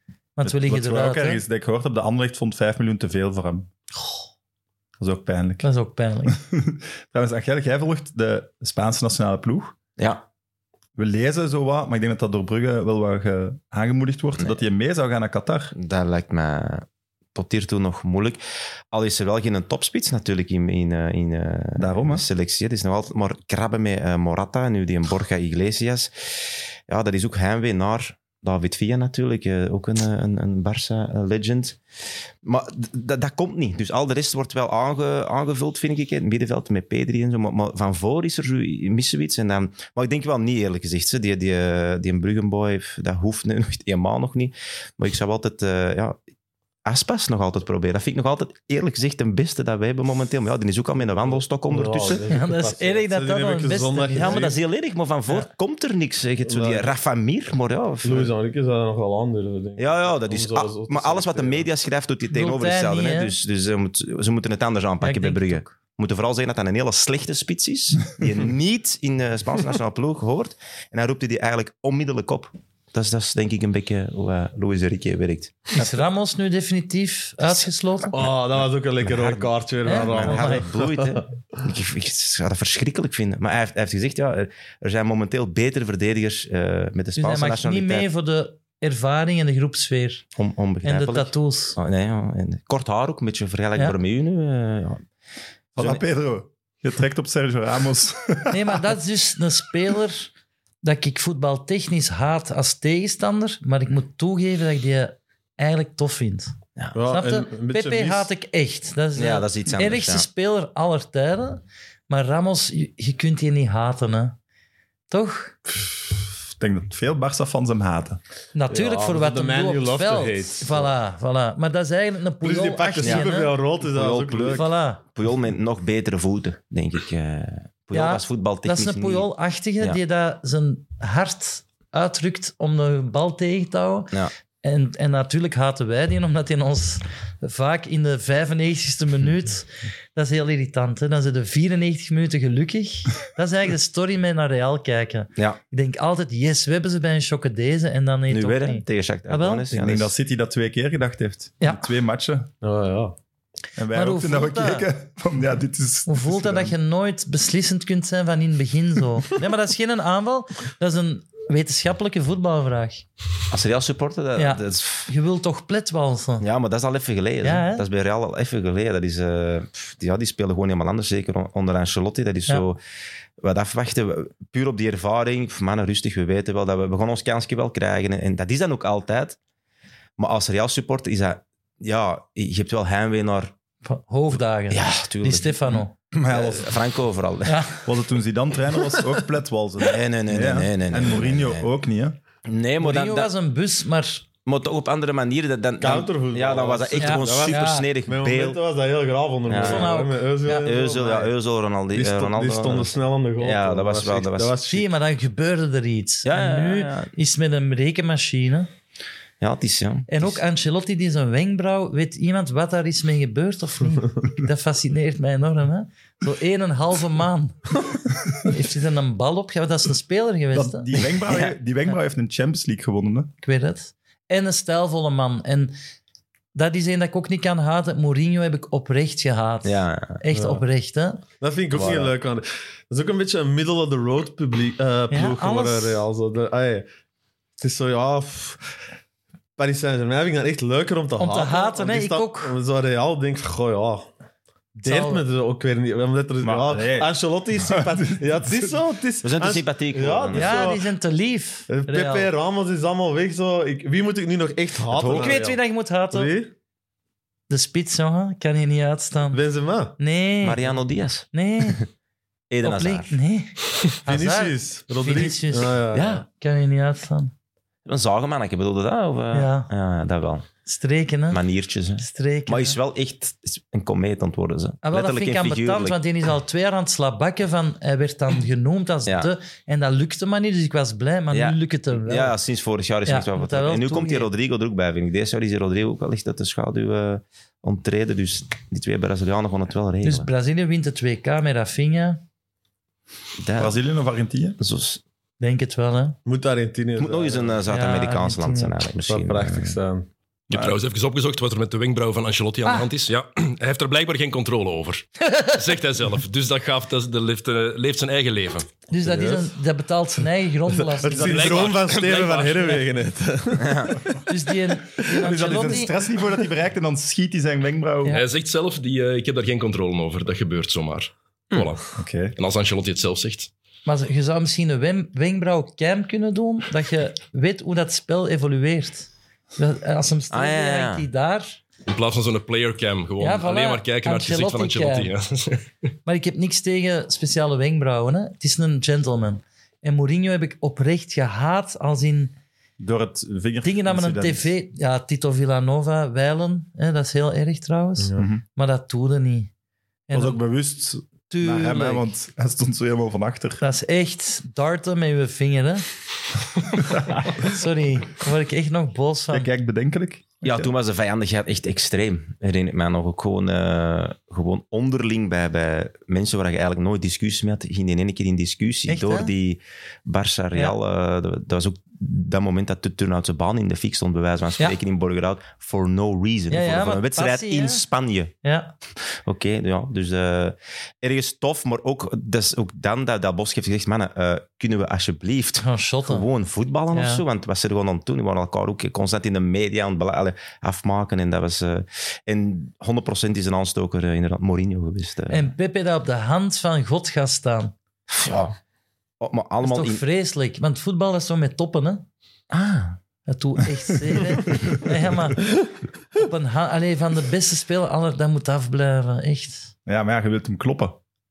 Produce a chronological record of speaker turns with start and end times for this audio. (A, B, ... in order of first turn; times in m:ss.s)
0:00.4-0:01.4 A
0:00.4-0:03.7 B
0:05.0-0:05.7 B
0:05.6-0:06.4 A
0:06.3-0:09.8 B
0:10.0-0:10.2 C
0:11.0-0:15.7 B
0:15.7-0:18.4 C
0:18.9-0:31.8 C
0:21.8-0:22.2 B
0:32.4-0:46.2 C
0:46.8-0:52.2 C
0:51.7-0:54.6 D
0:52.3-0:54.6 A
0:54.1-0:58.3 C
0:56.4-0:56.9 D
0:58.0-1:01.6 D
0:59.8-1:15.8 C
1:02.3-1:03.3 A
1:05.0-1:05.6 A
1:15.7-1:18.2 A
1:18.1-1:21.2 D
1:19.0-1:28.1 C
1:19.8-1:20.6 A
1:27.2-1:30.2 A
1:30.4-1:35.0 C
1:30.8-1:31.8 A
1:35.8-1:38.8 B
1:35.8-1:36.0 C
1:38.5-1:40.3 A
1:40.8-1:46.5 A
1:46.9-1:48.3 D
1:47.1-1:54.4 A
1:49.2-1:50.2 C
1:55.1-1:55.5 A
1:56.5-1:58.2 B
1:58.5-2:03.6 A
1:58.7-2:00.9 D
2:02.4-2:04.6 D
2:03.0-2:09.3 C
2:04.5-2:05.0 A
2:07.9-2:29.7 A
2:28.3-2:30.1 C
2:29.7-2:32.5 B
2:31.6-2:31.8 A
2:32.6-2:33.1 D
2:33.8-2:36.7 B
2:33.9-2:34.9 A
2:36.1-2:43.0 A
2:43.5-2:45.1 C
2:44.4-2:46.4 A
2:46.4-2:52.8 C
2:47.4-2:47.8 A
2:53.4-2:59.4 C
3:00.2-3:03.5 C
3:03.8-3:05.9 A
3:04.7-3:07.6 C
3:06.1-3:06.7 B
3:07.4-3:07.8 A
3:07.8-3:12.2 B
3:09.8-3:11.7 C
3:12.4-3:13.3 C
3:12.8-3:14.2 A
3:14.4-3:18.6 C
3:15.8-3:21.3 D
3:17.0-3:17.9 A
3:19.5-3:19.9 C
3:19.5-3:20.6 A
3:20.5-3:24.5 C
3:21.9-3:24.9 D
3:24.6-3:28.7 A
3:26.2-3:27.1 C
3:29.4-3:30.4 C
3:30.1-3:37.8 A
3:38.3-3:41.5 A
3:40.5-3:43.3 B
3:43.4-3:45.7 A
3:46.5-3:51.2 A
3:49.6-3:50.2 C
3:50.3-3:50.6 D
3:51.4-3:56.8 D
3:51.7-3:52.1 C
3:55.1-3:56.0 A
3:57.6-3:58.6 D
3:59.6-4:04.1 D
4:01.2-4:02.5 A
4:04.8-4:10.8 D
4:04.8-4:05.2 A
4:06.4-4:08.5 B
4:09.2-4:10.7 C
4:10.3-4:12.3 A
4:11.7-4:15.6 D
4:14.9-4:15.3 C
4:15.1-4:16.3 A
4:16.1-4:16.5 D
4:17.5-4:19.4 A
4:19.3-4:19.9 D
4:20.0-4:20.7 A
4:20.4-4:21.8 C
4:21.3-4:21.8 A
4:22.5-4:23.2 C
4:22.6-4:25.8 A
4:24.0-4:26.2 D
4:25.9-4:26.2 C
4:26.4-4:27.3 A
4:27.8-4:30.5 C
4:29.3-4:29.7 A
4:30.6-4:31.4 A
4:31.3-4:36.0 C
4:32.0-4:32.8 A
4:34.8-4:42.4 A
4:39.0-4:39.3 C
4:41.3-4:50.3 C
4:43.0-4:44.3 A
4:50.0-4:52.2 A
4:53.4-4:53.8 C
4:53.6-4:54.6 B
4:54.6-4:55.0 C
4:55.4-4:56.2 A
4:56.2-4:57.6 D
4:57.0-4:59.8 C
4:57.7-4:58.8 A
4:59.1-5:00.1 D
5:00.5-5:00.8 B
5:00.5-5:08.8 E
5:05.2-5:05.5 A
5:08.9-5:11.6 A
5:09.0-5:09.5 D
5:10.7-5:13.9 D
5:11.1-5:12.8 E
5:13.6-5:14.0 C
5:14.3-5:15.9 A
5:15.1-5:18.2 B
5:18.1-5:23.5 E
5:22.0-5:22.3 B
5:23.8-5:31.6 A
5:30.3-5:31.1 C
5:31.8-5:35.6 E
5:33.2-5:35.1 A
5:36.0-5:42.3 A
5:42.8-5:44.5 B
5:43.6-5:49.5 A
5:48.2-5:48.4 B
5:50.1-5:50.4 A
5:50.1-5:53.6 B
5:51.3-5:52.1 A
5:53.6-5:55.9 A
5:56.8-5:57.3 B
5:57.3-5:59.5 A
5:59.3-6:00.7 B
6:00.4-6:18.3 C
6:08.9-6:09.3 A
6:16.5-6:17.8 A
6:18.4-6:18.7 A
6:19.0-6:35.5 C
6:25.6-6:26.2 A
6:26.9-6:27.2 A
6:35.3-6:37.7 A
6:38.1-6:38.6 C
6:39.2-6:40.0 C
6:39.6-6:42.0 A
6:42.5-6:43.0 C
6:43.3-6:49.7 A
6:49.8-6:51.0 B